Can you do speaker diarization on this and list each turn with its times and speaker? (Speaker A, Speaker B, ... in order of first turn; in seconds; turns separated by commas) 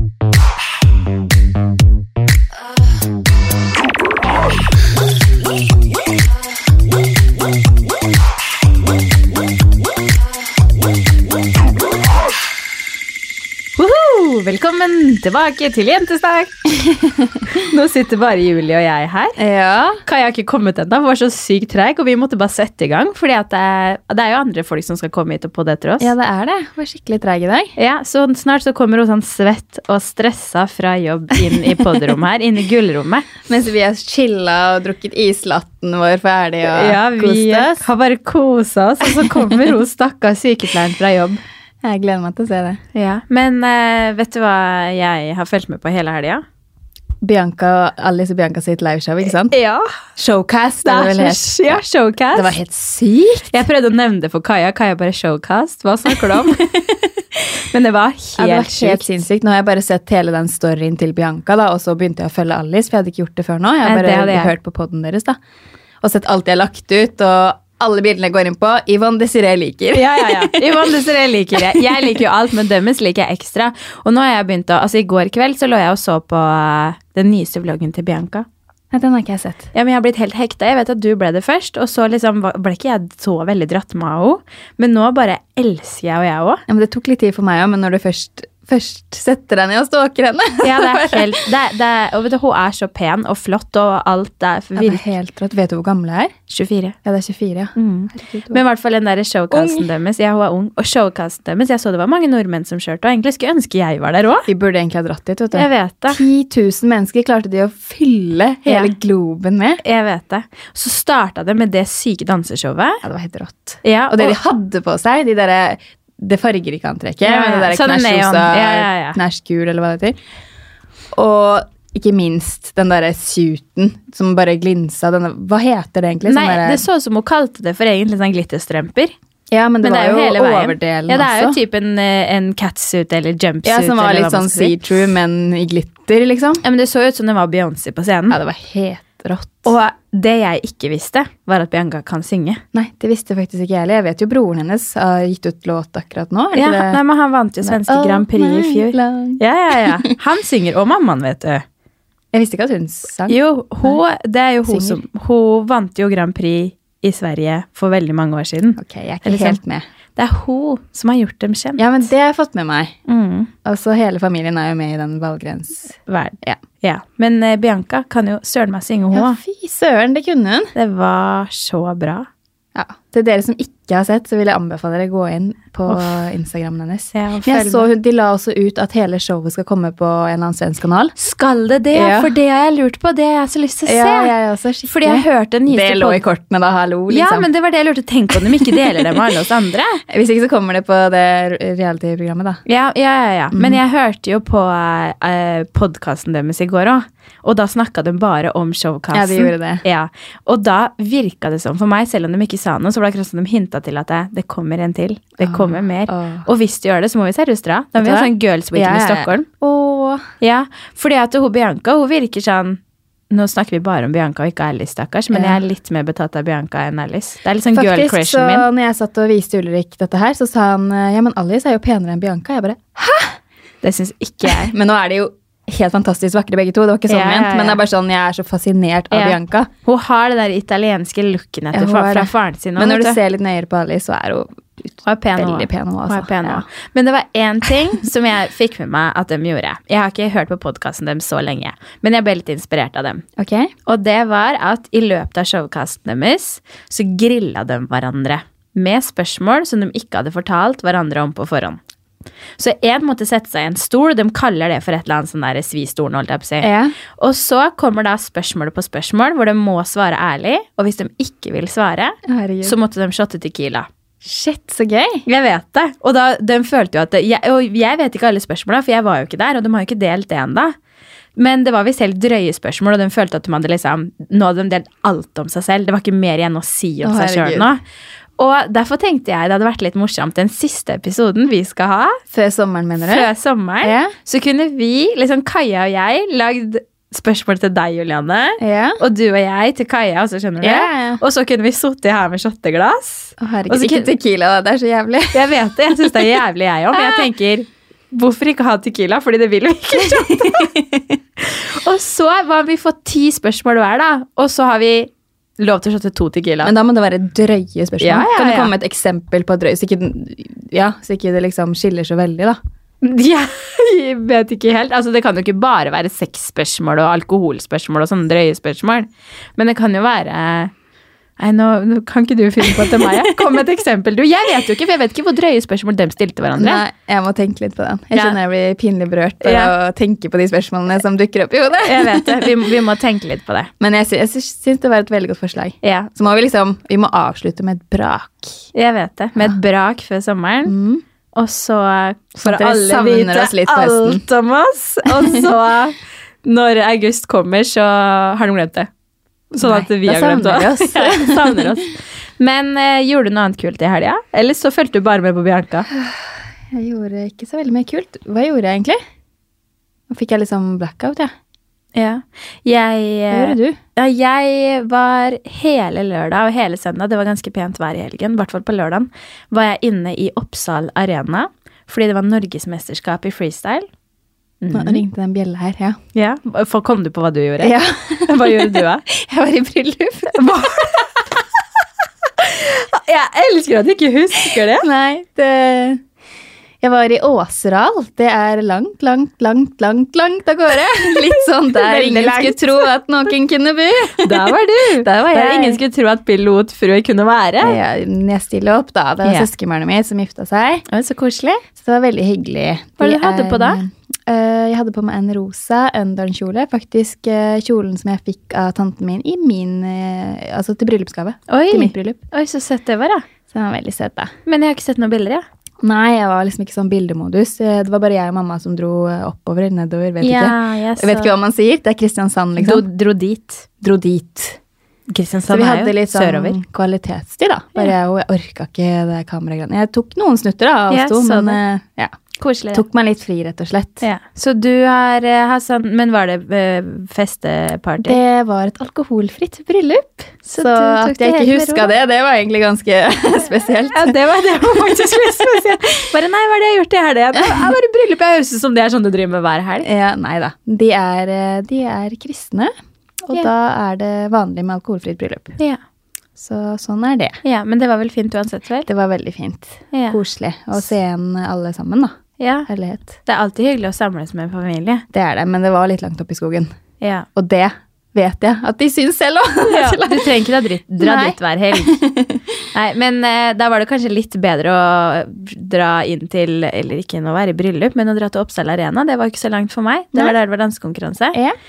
Speaker A: 13.8-16.5, Speaker B: 16.7-17.5, Speaker A: 17.5-19.4, Speaker B: 19.4-20.0, Speaker A: 20.1-26.1, Speaker B: 26.0-27.7, Speaker A: 27.8-33.3, Speaker B: 33.5-37.9, Speaker A: 36.6-41.4, Speaker B: 41.8-42.8, Speaker A: 42.9-46.4, Speaker B: 47.2-49.5, Speaker A: 49.5-50.0, Speaker B: 50.2-51.8, Speaker A: 50.8-52.6, Speaker B: 52.3-53.6, Speaker A: 53.5-56.7, Speaker B: 56.2-57.1, Speaker A: 57.7-59.2, Speaker B: 58.4-65.4, Speaker A: 63.8-64.5, Speaker B: 66.0-70.9, Speaker A: 69.9-78.5, Speaker B: 71.8-72.1, Speaker B: 78.9-79.7, Speaker A: 79.7-86.6, Speaker B: 86.7-91.3, Speaker A: 90.6-95.1, Speaker B: 94.8-96.3, Speaker A: 96.5-97.0, Speaker B: 97.0-98.6, Speaker A: 97.8-104.5, Speaker B: 99.5-99.9, Speaker B: 104.5-109.8, Speaker A: 105.5-106.2, Speaker A: 108.7-108.9, Speaker A: 109.8-113.0, Speaker B: 113.0-120.2, Speaker A: 113.8-114.4, Speaker A: 117.2-119.2, Speaker B: 121.1-126.8, Speaker A: 126.2-129.2, Speaker B: 129.5-131.6, Speaker A: 129.8-134.8, Speaker B: 133.7-136.6, Speaker A: 136.6-138.4, Speaker B: 138.3-139.7, Speaker A: 139.7-142.6, Speaker B: 142.7-147.0, Speaker A: 146.5-151.6, Speaker B: 147.7-150.2, Speaker B: 152.3-154.0, Speaker A: 153.3-159.6, Speaker B: 154.7-155.0, Speaker B: 158.8-159.8, Speaker A: 160.2-162.1, Speaker B: 161.8-163.0, Speaker A: 163.1-163.5, Speaker B: 163.6-166.6, Speaker A: 166.1-169.4, Speaker B: 169.1-170.7, Speaker A: 170.8-172.3, Speaker B: 172.8-181.1, Speaker A: 175.9-176.2, Speaker A: 177.1-177.9, Speaker A: 181.2-184.3, Speaker B: 181.9-182.3, Speaker B: 183.8-187.5, Speaker A: 184.9-186.2, Speaker A: 187.1-190.0, Speaker B: 188.6-189.1, Speaker B: 190.1-192.6, Speaker A: 192.7-209.5, Speaker B: 193.5-193.8, Speaker B: 199.1-199.8, Speaker B: 205.4-206.5, Speaker B: 208.0-210.3, Speaker A: 210.4-212.8, Speaker A: 213.3-218.7, Speaker B: 215.3-215.6, Speaker B: 217.7-223.4, Speaker A: 223.8-224.7, Speaker B: 224.4-229.7, Speaker A: 227.1-227.8, Speaker A: 229.1-233.2, Speaker B: 231.7-236.7, Speaker A: 235.1-243.2, Speaker B: 243.4-243.7, Speaker A: 243.9-251.8, Speaker A: 252.6-263.9, Speaker B: 256.6-256.9, Speaker B: 262.3-262.8, Speaker B: 264.2-265.3, Speaker A: 265.3-270.8, Speaker A: 271.4-277.8, Speaker B: 277.0-277.7, Speaker A: 278.4-282.2, Speaker B: 282.3-283.3, Speaker A: 283.0-294.1, Speaker B: 283.8-284.1, Speaker B: 288.6-289.0, Speaker B: 290.6-291.2, Speaker B: 293.4-296.2, Speaker A: 295.3-300.7, Speaker B: 296.9-297.3, Speaker B: 300.0-301.2, Speaker A: 301.4-306.8, Speaker B: 306.6-312.6, Speaker A: 308.0-308.7, Speaker A: 313.0-320.7, Speaker A: 321.4-326.8, Speaker B: 326.6-332.7, Speaker A: 329.4-329.7, Speaker A: 331.8-333.7, Speaker B: 333.8-338.7, Speaker A: 335.8-336.1, Speaker A: 338.7-340.7, Speaker B: 340.7-341.0, Speaker A: 341.4-348.9, Speaker B: 342.4-344.2, Speaker B: 345.1-345.5, Speaker B: 349.6-351.7, Speaker A: 349.6-355.9, Speaker B: 355.9-359.0, Speaker B: 360.1-361.3, Speaker A: 361.9-373.9, Speaker B: 363.3-363.8, Speaker A: 374.6-375.0, Speaker B: 374.7-376.0, Speaker A: 376.1-379.0, Speaker B: 377.6-381.0, Speaker A: 380.3-381.2, Speaker A: 382.4-384.9, Speaker B: 384.8-386.0, Speaker B: 386.8-395.8, Speaker A: 391.7-392.6, Speaker A: 394.2-397.8, Speaker B: 397.6-400.9, Speaker A: 400.9-401.6, Speaker B: 401.8-412.2, Speaker A: 403.0-403.8, Speaker A: 411.5-413.2, Speaker B: 413.5-414.3, Speaker A: 414.5-415.4, Speaker B: 415.8-422.8, Speaker A: 420.2-421.3, Speaker A: 422.6-423.7, Speaker B: 423.8-424.6, Speaker A: 425.1-426.6, Speaker B: 425.5-432.1, Speaker A: 430.9-431.6, Speaker A: 432.4-432.8, Speaker B: 432.7-434.1, Speaker A: 434.0-438.2, Speaker B: 438.0-444.2, Speaker A: 440.5-441.9, Speaker A: 443.9-449.9, Speaker B: 447.3-447.7, Speaker B: 449.8-455.6, Speaker B: 456.4-457.4, Speaker A: 457.4-458.9, Speaker B: 458.9-463.2, Speaker A: 459.9-460.2, Speaker A: 462.4-462.7, Speaker A: 463.3-465.1, Speaker B: 465.1-466.7, Speaker A: 467.0-467.3, Speaker B: 467.4-470.3, Speaker A: 469.6-472.0, Speaker B: 471.0-472.6, Speaker A: 472.7-481.4